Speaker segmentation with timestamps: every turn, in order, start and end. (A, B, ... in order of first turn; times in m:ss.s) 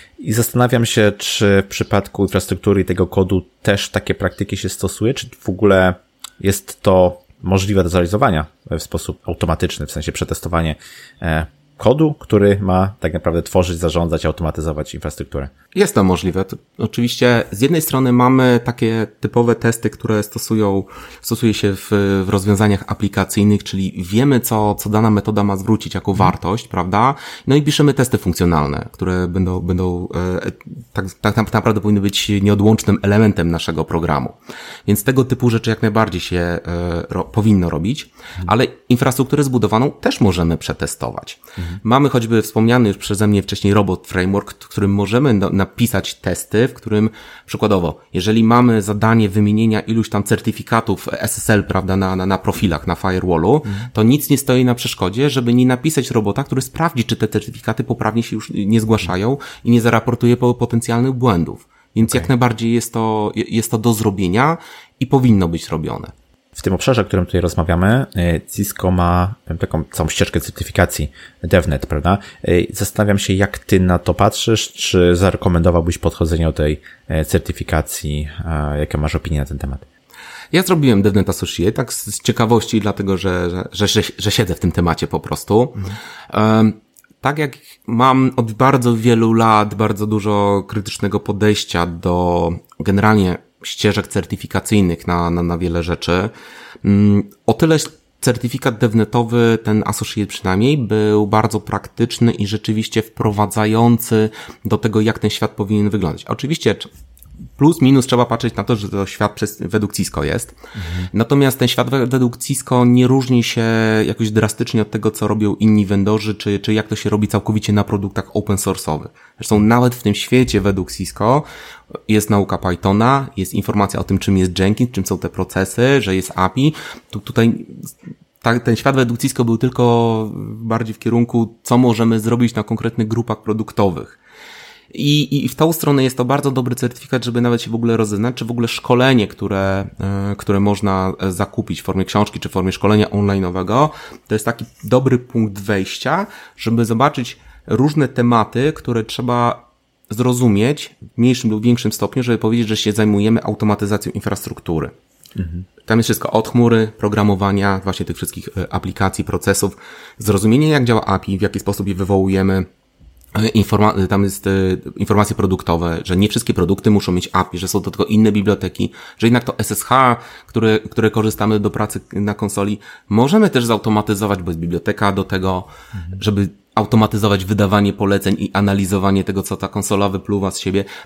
0:00.2-0:15.5 A
0:15.7-1:06.1 B
1:06.5-1:19.8 A
1:20.5-1:36.3 B
1:36.8-1:46.9 B
1:47.6-1:50.6 B
1:50.8-1:51.1 A
1:51.1-2:01.4 B
2:02.1-2:14.2 B
2:14.9-2:34.9 B
2:35.4-2:35.6 A
2:35.8-2:42.7 B
2:43.3-3:00.9 B